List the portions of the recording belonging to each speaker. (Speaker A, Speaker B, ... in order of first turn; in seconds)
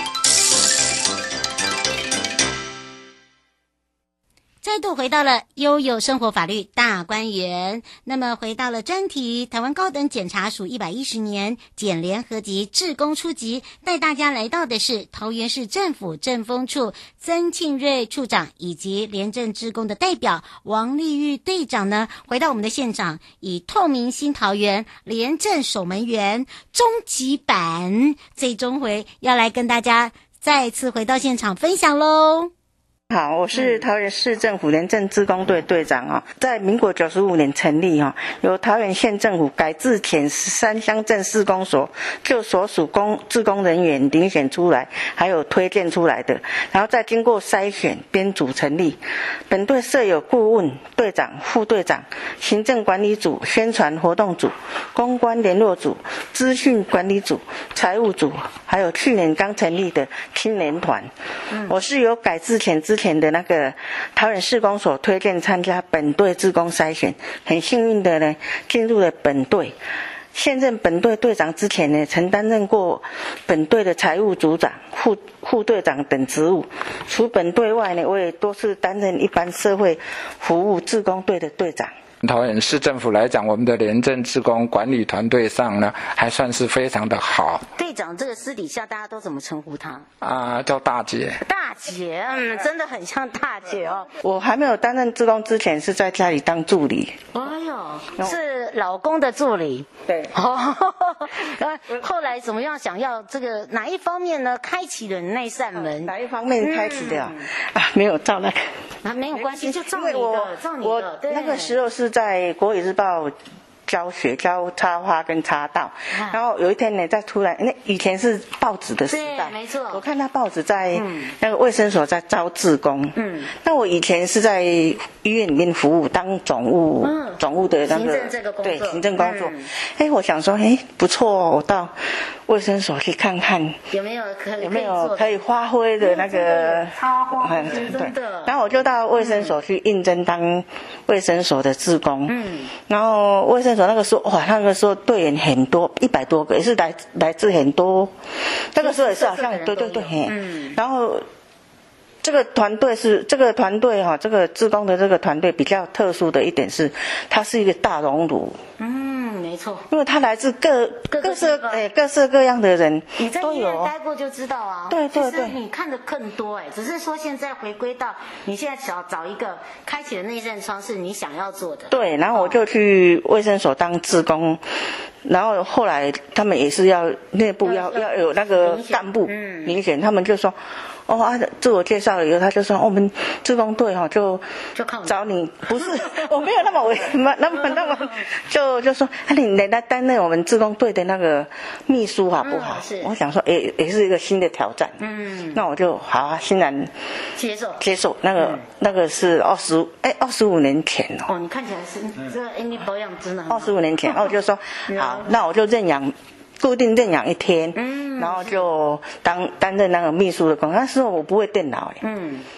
Speaker A: 4.6-32.5, 33.5-33.8, 61.5-61.8, 87.7-90.1, 91.4-94.2, 97.3-107.5, 109.0-111.8, 116.1-116.4, 119.1-120.0, 120.9-121.3, 123.2-123.5, 127.0-129.7, 133.9-135.4, 136.0-138.6, 139.2-139.6, 142.3-142.7, 148.8-150.8, 158.8-159.8, 161.1-161.8, 163.2-172.7, 177.6-179.8, 184.8-185.2, 185.8-186.3, 192.4-193.1, 195.0-195.6, 197.3-197.8, 198.4-198.6, 201.3-204.3, 204.9-205.3, 207.8-208.7, 212.0-212.5
Speaker B: 33.1-61.1, 61.6-69.8, 70.3-81.9, 94.2-97.2, 100.1-100.3, 105.8-108.7, 109.3-113.3, 113.9-132.0, 132.5-133.8, 134.6-142.3, 142.9-148.1, 148.7-151.2, 152.2-158.6, 159.9-163.9, 164.9-165.6, 171.9-174.6, 175.2-180.6, 181.1-184.4, 185.1-195.0, 195.5-196.9, 197.8-201.3, 203.5-212.0
Speaker C: 82.2-87.6, 90.2-91.4